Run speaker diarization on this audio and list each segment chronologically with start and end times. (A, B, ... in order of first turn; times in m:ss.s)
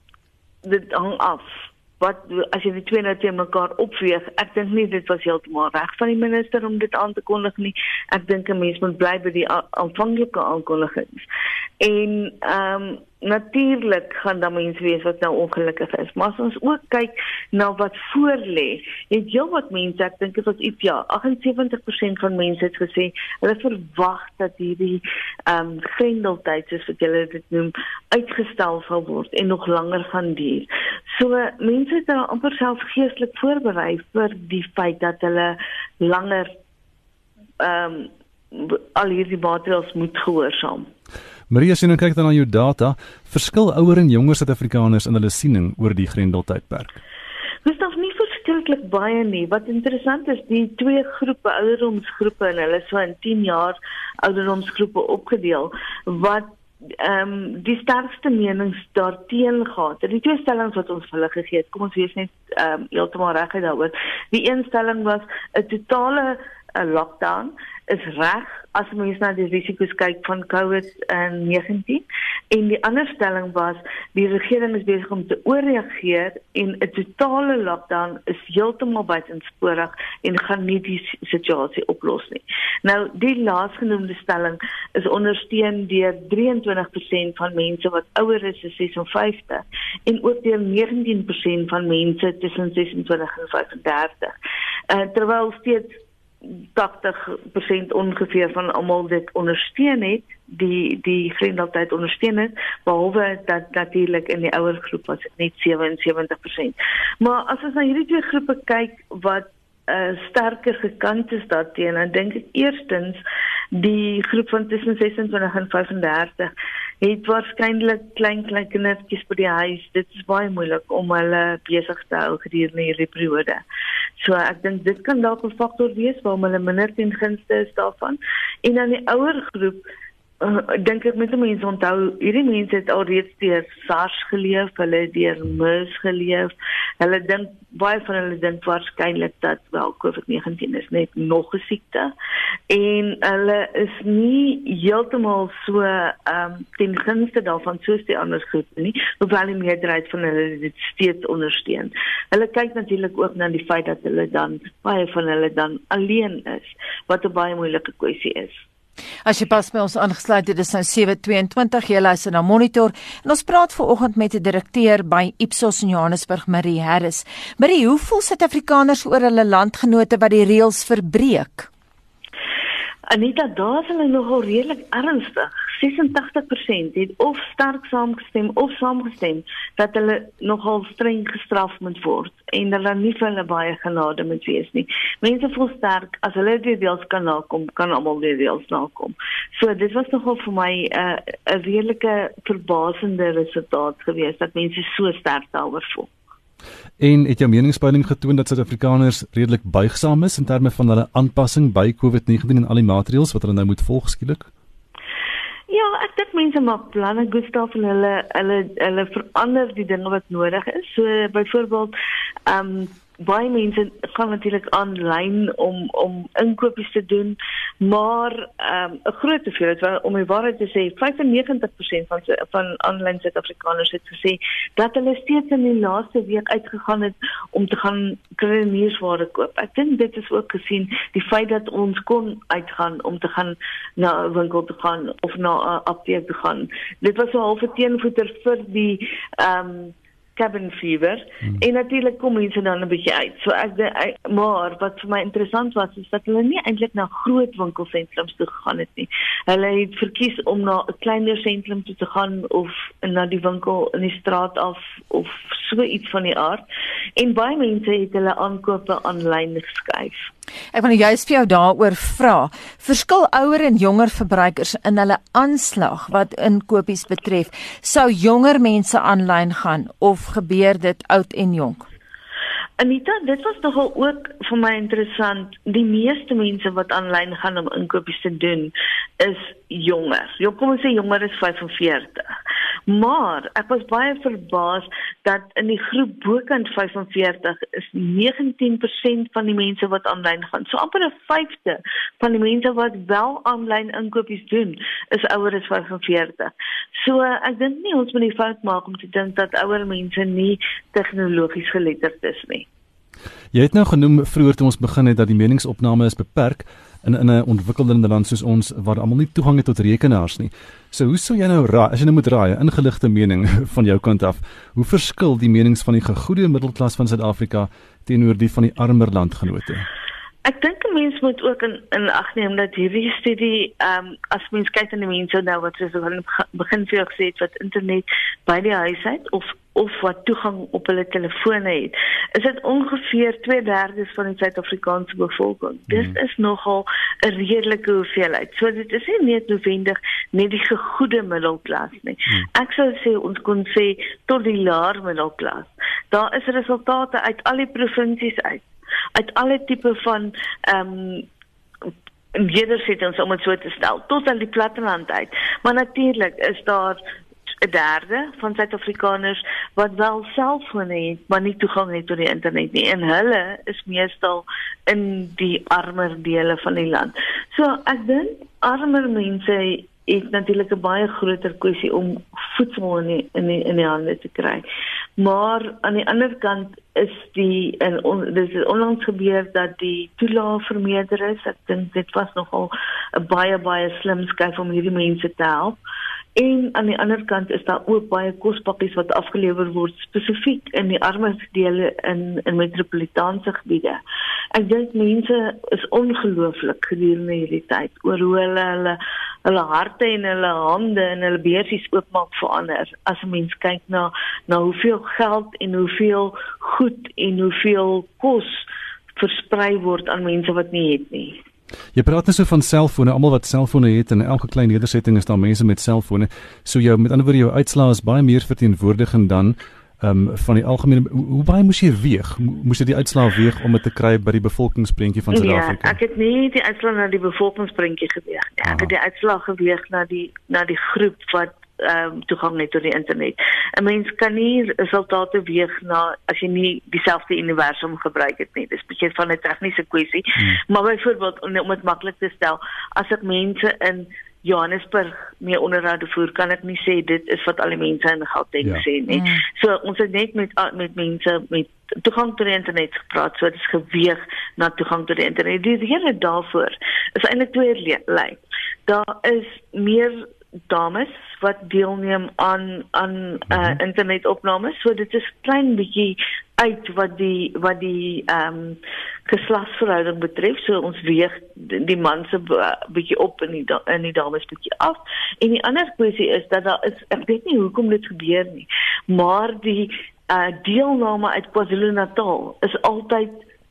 0:00.6-0:11.2 A
0:11.8-0:36.5 A
0:37.6-0:40.9 A
0:41.5-0:47.0 B
0:47.6-1:34.3 A
1:34.9-1:36.0 A
1:36.8-1:53.2 A
1:53.7-2:03.6 A
2:04.2-2:09.8 A
2:10.4-2:22.1 A
2:22.7-2:38.6 A
2:39.2-2:51.7 C
2:53.1-3:16.1 A
3:17.0-3:24.5 B
3:25.7-3:31.9 A
3:32.5-4:16.6 A
4:17.2-4:20.3 A
4:20.7-4:31.9 C
4:32.8-4:42.3 A
4:42.9-5:02.6 A
5:03.5-5:19.8 B
5:20.4-5:51.2 A
5:35.9-5:36.2 B
5:52.3-5:57.0 A
5:57.6-6:14.6 A
6:15.2-6:25.8 A
6:26.4-6:34.0 A
6:34.5-6:48.6 A
6:49.2-6:51.4 A
6:51.9-7:06.0 B
7:05.3-8:03.4 A
7:08.6-7:08.9 B
7:29.1-7:29.4 C
7:43.5-7:43.8 B